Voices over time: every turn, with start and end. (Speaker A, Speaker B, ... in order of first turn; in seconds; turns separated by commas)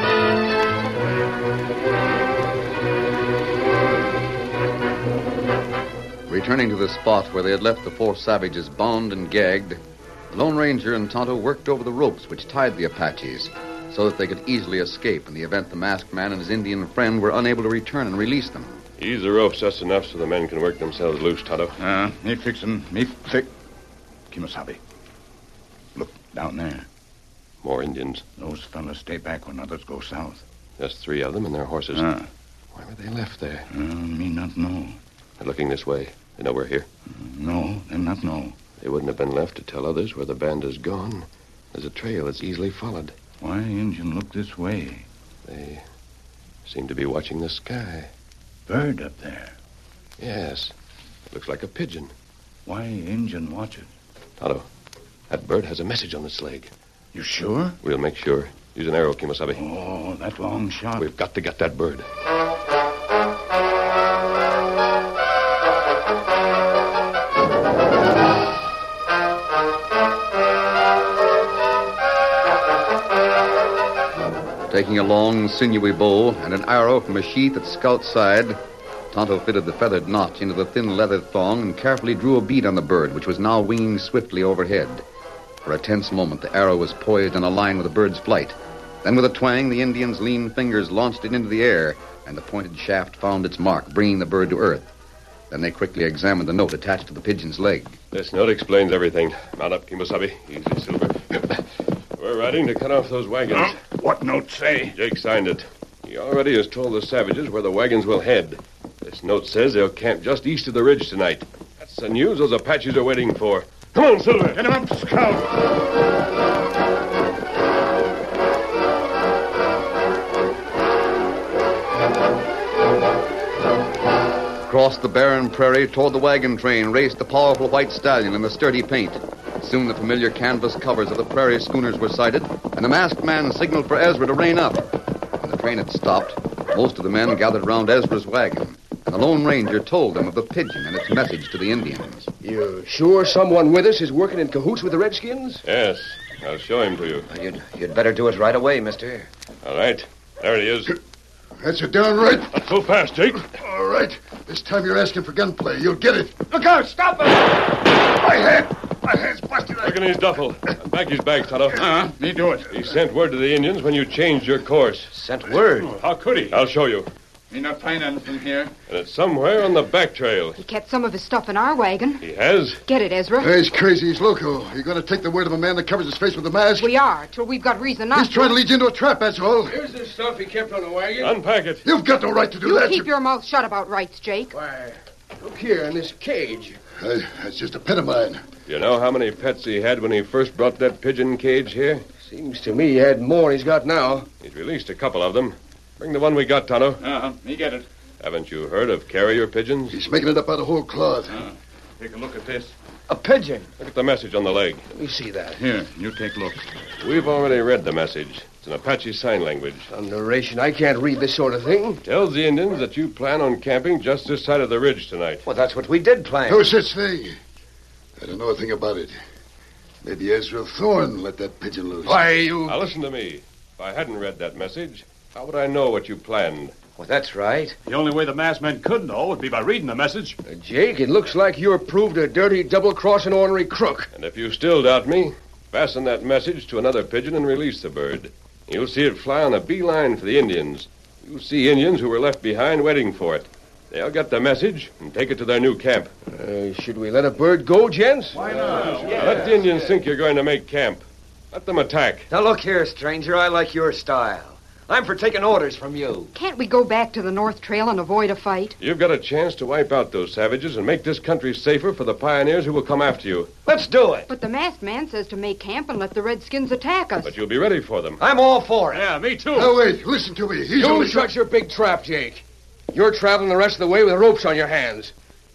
Speaker A: 6.3-18.8, Speaker B: 19.0-21.8, Speaker C: 21.8-23.5, Speaker C: 24.3-24.8, Speaker C: 25.9-26.9, Speaker B: 27.6-28.2, Speaker C: 28.4-30.4, Speaker B: 30.8-32.1, Speaker C: 31.9-32.3, Speaker B: 32.7-33.7, Speaker C: 33.7-35.0, Speaker B: 35.4-36.9, Speaker C: 37.1-38.6, Speaker B: 38.8-43.2, Speaker C: 43.4-45.1, Speaker B: 45.5-45.9, Speaker B: 46.6-48.1, Speaker C: 48.7-49.5, Speaker B: 50.2-50.8, Speaker B: 51.3-52.1, Speaker C: 52.7-53.9, Speaker B: 54.4-54.7, Speaker B: 55.3-56.7, Speaker C: 57.1-57.8, Speaker B: 57.8-59.6, Speaker C: 59.6-61.0, Speaker B: 61.0-62.1, Speaker A: 74.7-78.6, Speaker A: 79.1-85.0, Speaker A: 85.6-94.9, Speaker A: 95.5-98.0, Speaker B: 98.1-103.8, Speaker C: 103.5-105.0, Speaker B: 104.9-114.6, Speaker C: 114.5-115.5, Speaker A: 124.7-134.8, Speaker A: 135.4-142.3, Speaker D: 142.4-145.6, Speaker B: 145.6-147.3, Speaker E: 147.3-149.3, Speaker B: 149.6-150.9, Speaker F: 151.6-152.5, Speaker B: 152.5-153.5, Speaker F: 153.5-156.6, Speaker C: 156.5-157.2, Speaker F: 158.1-159.9, Speaker B: 159.8-161.8, Speaker C: 161.7-162.8, Speaker B: 162.7-165.1, Speaker E: 165.1-165.9, Speaker G: 165.8-166.6, Speaker B: 166.5-167.1, Speaker C: 167.5-168.7, Speaker B: 168.9-170.6, Speaker H: 170.6-172.2, Speaker B: 172.2-172.8, Speaker H: 172.9-173.6, Speaker F: 173.4-176.9, Speaker H: 176.8-178.6, Speaker F: 178.1-179.8, Speaker D: 179.7-181.4, Speaker B: 181.2-181.8, Speaker F: 181.8-183.1, Speaker H: 182.6-184.6, Speaker D: 184.5-186.8, Speaker F: 187.0-188.4, Speaker B: 188.7-192.1, Speaker D: 192.2-194.3, Speaker B: 194.4-197.0, Speaker C: 197.0-197.9, Speaker B: 198.2-200.0, Speaker F: 199.9-201.4, Speaker C: 201.3-202.7, Speaker E: 203.1-203.7, Speaker B: 203.8-204.9, Speaker D: 204.9-205.6, Speaker C: 205.6-206.7, Speaker B: 207.0-209.9, Speaker D: 209.9-212.0, Speaker B: 212.0-215.4, Speaker E: 215.5-216.7, Speaker F: 216.5-217.3, Speaker F: 218.2-219.2, Speaker F: 220.0-222.2, Speaker D: 222.1-222.9, Speaker B: 222.7-226.8, Speaker E: 227.0-227.8, Speaker G: 227.9-230.4, Speaker D: 230.4-234.1, Speaker B: 234.1-246.1, Speaker D: 246.3-248.6, Speaker B: 249.0-252.3, Speaker E: 252.3-256.3, Speaker H: 256.3-258.8, Speaker B: 258.8-263.5, Speaker E: 263.6-264.3, Speaker H: 264.3-267.3, Speaker B: 267.2-268.2, Speaker E: 268.2-269.1, Speaker G: 268.9-269.8, Speaker F: 269.5-271.3, Speaker D: 270.7-275.1